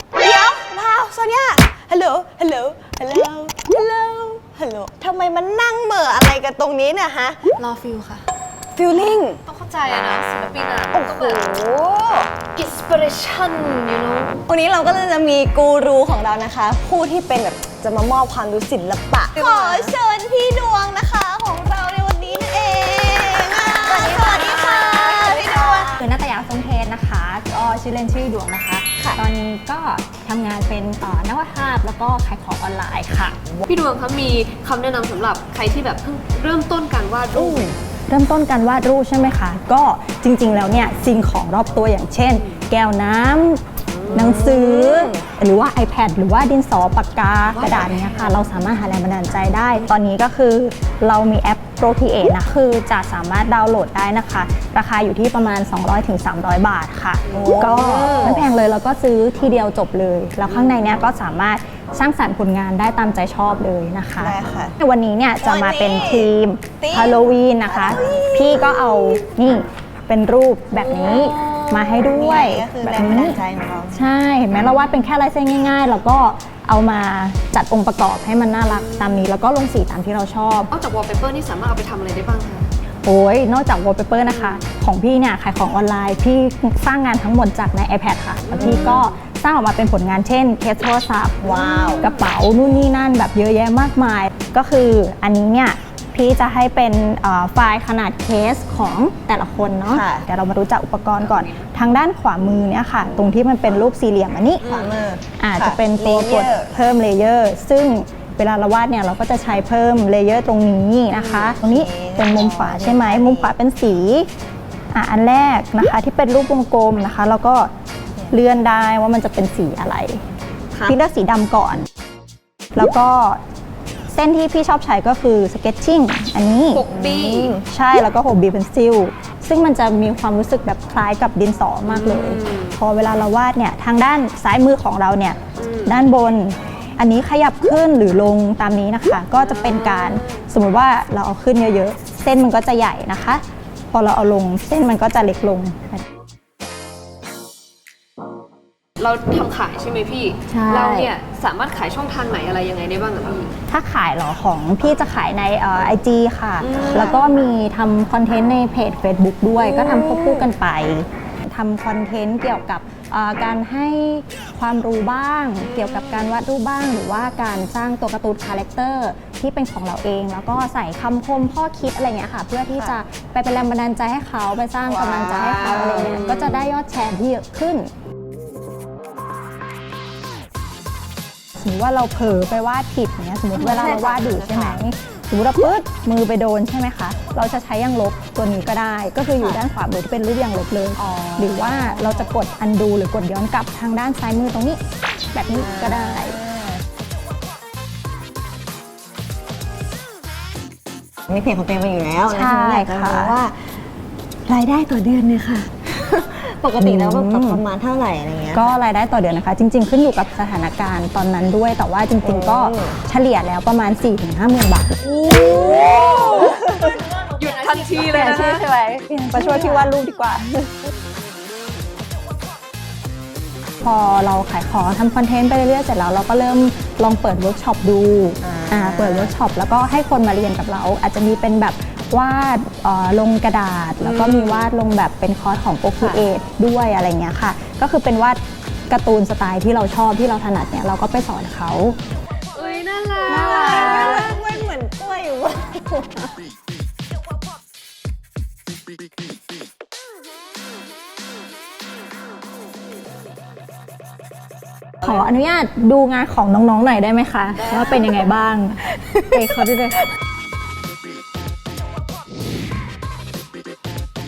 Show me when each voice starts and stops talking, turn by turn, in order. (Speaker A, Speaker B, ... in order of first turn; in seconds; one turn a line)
Speaker A: 0.1-7.4
Speaker B: 7.6-8.3
Speaker A: 8.8-9.4
Speaker B: 8.9-11.4
Speaker A: 10.9-12.3
Speaker B: 12.5-14.4
Speaker A: 14.5-26.0
Speaker B: 19.4-19.9
Speaker C: 23.8-33.4
Speaker B: 33.7-37.9
Speaker A: 37.3-37.8
Speaker C: 38.1-73.4
Speaker B: 43.9-45.0
Speaker B: 47.5-48.4
Speaker A: 57.3-58.5
Speaker B: 60.6-61.0
Speaker A: 64.2-64.8
Speaker A: 65.4-69.2
Speaker B: 70.8-72.0
Speaker A: 71.9-74.1
Speaker C: 73.9-80.7
Speaker B: 78.6-79.3
Speaker B: 80.7-82.7
Speaker C: 83.0-91.5
Speaker B: 84.3-84.6
Speaker B: 88.5-89.1
Speaker A: 88.5-89.0
Speaker A: 91.4-92.1
Speaker B: 91.4-92.4
Speaker C: 92.0-104.8
Speaker A: 99.9-100.3
Speaker B: 101.2-101.7
Speaker B: 104.6-105.0
Speaker A: 104.6-106.8
Speaker C: 105.4-114.3
Speaker A: 111.2-113.5
Speaker C: 114.9-117.7
Speaker C: 118.3-120.2
Speaker C: 120.9-121.9
Speaker C: 122.7-123.4
Speaker C: 124.1-126.8
Speaker B: 126.7-127.6
Speaker A: 126.9-127.6
Speaker C: 127.7-146.0
Speaker B: 131.9-132.8
Speaker B: 135.6-136.1
Speaker B: 139.4-140.4
Speaker B: 149.0-153.5
Speaker C: 150.5-151.1
Speaker C: 153.7-177.9
Speaker B: 156.6-157.2
Speaker B: 159.6-160.5
Speaker B: 165.6-166.3
Speaker A: 172.7-173.0
Speaker B: 174.9-176.7
Speaker C: 181.6-194.8
Speaker B: 183.6-184.8
Speaker B: 191.0-192.3
Speaker C: 195.3-196.4
Speaker A: 195.5-196.8
Speaker A: 201.3-203.6
Speaker C: 202.3-203.4
Speaker A: 204.5-208.7
Speaker C: 206.8-207.6
Speaker C: 208.5-215.0
Speaker A: 212.2-213.0
Speaker B: 215.4-216.7
Speaker A: 215.6-216.7
Speaker C: 216.2-216.6
Speaker B: 217.3-218.7
Speaker C: 218.0-220.5
Speaker C: 223.8-242.0
Speaker A: 228.4-229.3
Speaker B: 234.0-234.7
Speaker B: 242.5-244.3
Speaker C: 243.3-244.3
Speaker A: 243.3-246.3
Speaker C: 255.0-260.1